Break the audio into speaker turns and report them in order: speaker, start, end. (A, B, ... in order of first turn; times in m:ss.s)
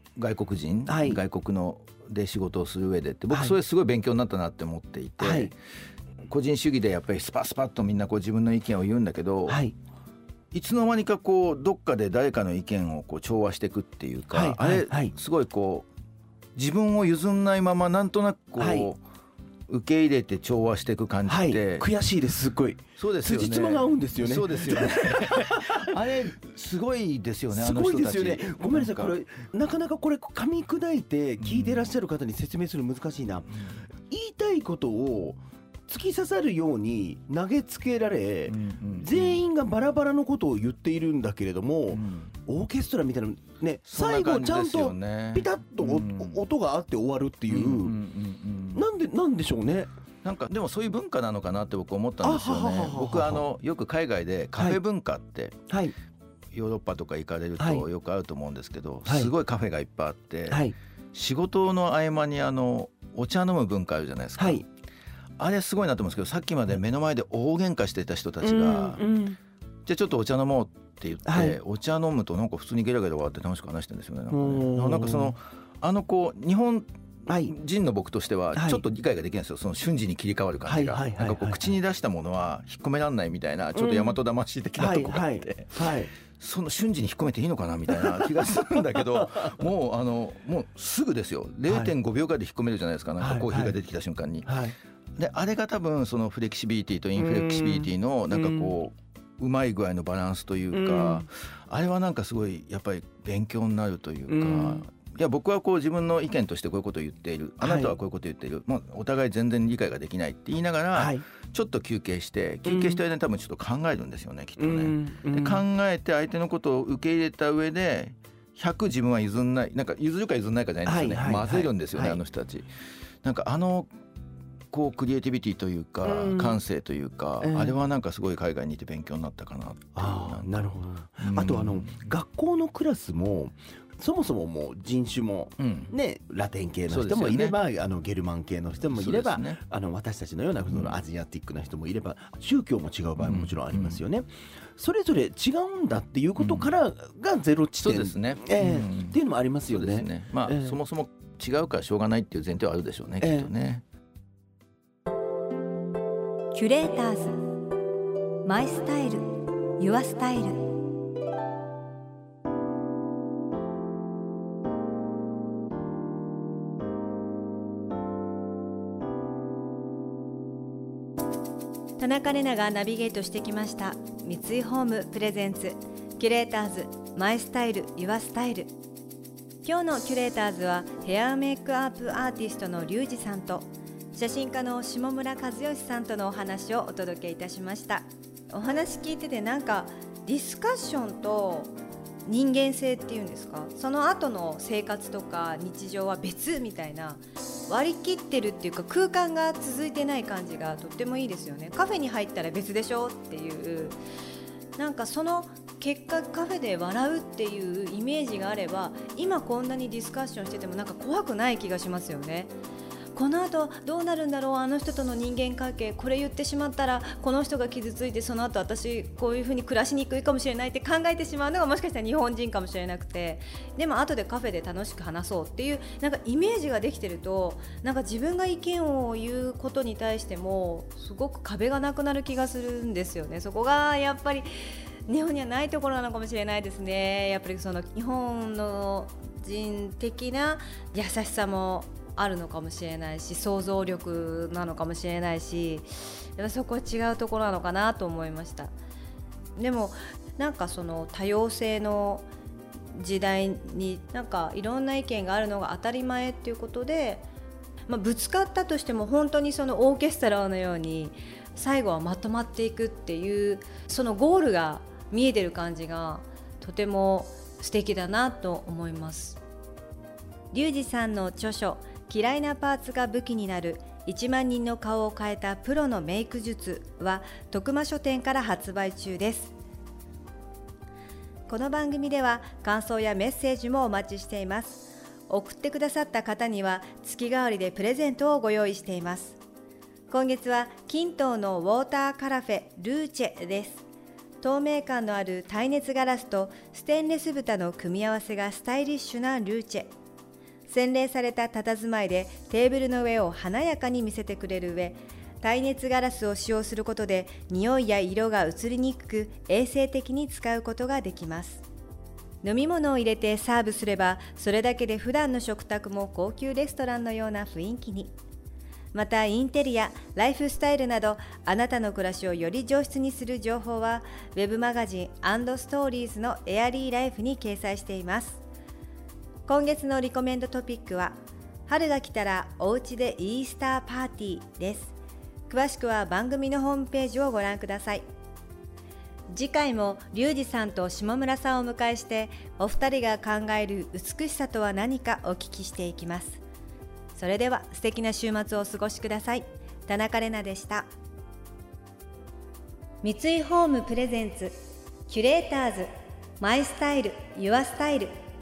0:00.2-0:05.6 A
0:00.9-0:01.2 B
0:03.3-0:03.6 B
0:05.2-0:05.5 B
0:06.3-0:09.6 A
0:09.5-0:09.7 B
0:10.5-0:15.9 A
0:14.3-0:15.1 B
0:16.6-0:19.0 A
0:18.6-0:18.9 B
0:19.7-0:21.9 A
0:21.3-0:25.9 B
0:23.0-0:29.2 A
0:27.5-0:48.0 B
0:31.4-0:31.9 A
0:38.5-0:39.4 A
0:41.9-0:42.4 A
0:43.9-0:46.4 A
0:47.5-0:48.9 A
0:48.8-0:49.9 B
0:50.2-0:55.6 A
0:52.2-0:53.5 B
0:54.5-0:54.8 B
0:56.5-1:04.7 A
0:57.6-0:57.9 B
0:59.0-0:59.3 B
1:00.5-1:00.8 B
1:04.4-1:04.6 B
1:05.4-1:09.0 A
1:08.4-1:09.4 B
1:09.9-1:34.5 A
1:11.3-1:11.6 B
1:14.3-1:15.4 B
1:17.3-1:17.5 B
1:18.5-1:18.8 B
1:20.7-1:21.6 B
1:23.8-1:24.2 B
1:24.8-1:26.1 B
1:28.1-1:28.5 B
1:31.7-1:31.9 B
1:33.2-1:33.8 B
1:34.4-1:34.8 B
1:35.2-2:02.7 A
1:37.2-1:38.7 B
1:40.7-1:41.3 B
1:44.3-1:44.8 B
1:47.6-1:48.0 B
1:50.9-1:51.2 B
1:52.6-1:53.0 B
1:54.6-1:55.6 B
2:00.8-2:02.2 B
2:03.2-2:03.9 A
2:04.7-2:10.7 A
2:06.0-2:06.6 B
2:07.4-2:07.8 B
2:10.0-2:30.8 B
2:11.2-2:12.1 A
2:15.6-2:15.9 A
2:16.9-2:17.6 A
2:18.8-2:19.6 A
2:20.7-2:21.0 A
2:23.2-2:24.0 A
2:26.4-2:26.7 A
2:27.8-2:33.8 A
2:33.2-2:33.5 B
2:36.5-2:37.5 C
2:38.4-2:40.7 C
2:52.0-2:58.7 C
2:59.6-3:11.7 C
3:12.2-3:24.0 C
3:24.8-3:32.5 C
3:33.1-3:54.5 C
3:55.1-4:08.7 C
4:09.6-4:12.3 C
4:12.9-4:17.3 C
4:17.9-4:29.4 C
4:30.5-4:39.5 C
4:41.5-4:49.4 C
4:50.1-4:53.8 C
4:54.4-4:59.9 C
5:00.7-5:11.6 C
5:12.4-5:18.1 C
5:18.9-5:28.4 C
5:29.5-5:35.0 C
5:35.5-5:38.0 C
5:39.3-5:46.4 C
5:47.1-5:50.9 C
5:53.0-5:54.5 C
5:55.1-5:58.1 C